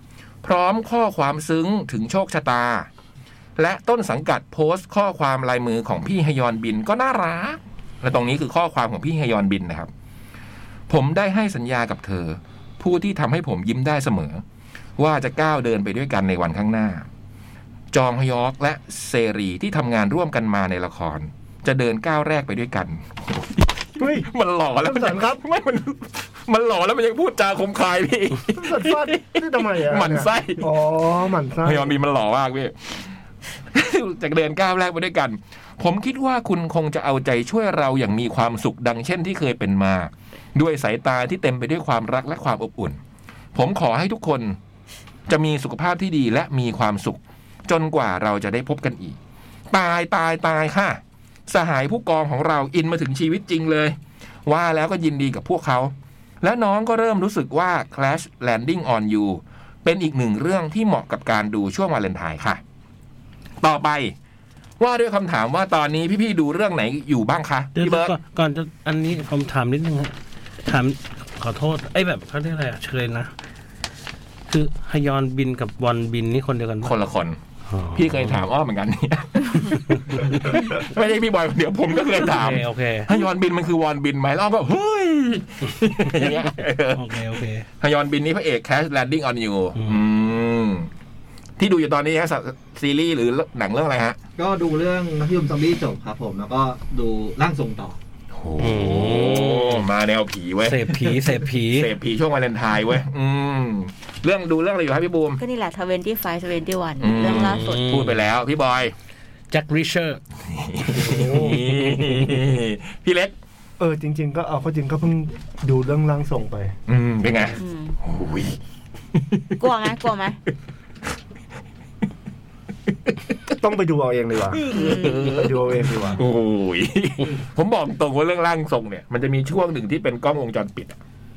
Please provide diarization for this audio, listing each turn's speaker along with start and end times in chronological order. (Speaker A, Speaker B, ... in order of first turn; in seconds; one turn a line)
Speaker A: 0.4-2.9
Speaker A: 3.6-9.9
Speaker A: 10.9-14.4
Speaker A: 15.0-17.1
Speaker A: 17.9-30.7
Speaker B: 24.0-24.3
Speaker B: 24.8-25.4
Speaker B: 28.5-31.9
Speaker A: 31.6-33.1
Speaker A: 33.7-43.0
Speaker A: 43.5-44.6
Speaker A: 45.3-49.2
Speaker A: 49.7-62.6
Speaker A: 63.6-64.1
Speaker A: 64.8-68.1
Speaker C: 67.8-70.1
Speaker C: 70.7-73.3
Speaker C: 74.5-76.9
Speaker A: 76.8-77.4
Speaker C: 77.7-78.4
Speaker A: 77.9-87.2
Speaker C: 79.9-80.6
Speaker C: 82.2-83.1
Speaker C: 86.9-87.7
Speaker A: 87.8-90.9
Speaker A: 91.6-94.2
Speaker D: 94.4-98.0
Speaker A: 98.3-101.1
Speaker C: 98.6-99.9
Speaker C: 100.6-101.9
Speaker A: 101.7-105.4
Speaker E: 105.4-107.9
Speaker A: 107.0-108.9
Speaker C: 107.2-108.2
Speaker C: 109.5-110.2
Speaker A: 110.5-113.3
Speaker C: 110.8-112.4
Speaker B: 111.0-111.6
Speaker B: 113.8-116.7
Speaker A: 116.9-118.6
Speaker E: 117.5-118.0
Speaker A: 119.2-119.5
Speaker E: 119.6-120.4
Speaker B: 123.6-124.6
Speaker A: 124.5-130.9
Speaker E: 124.7-125.4
Speaker B: 125.3-126.2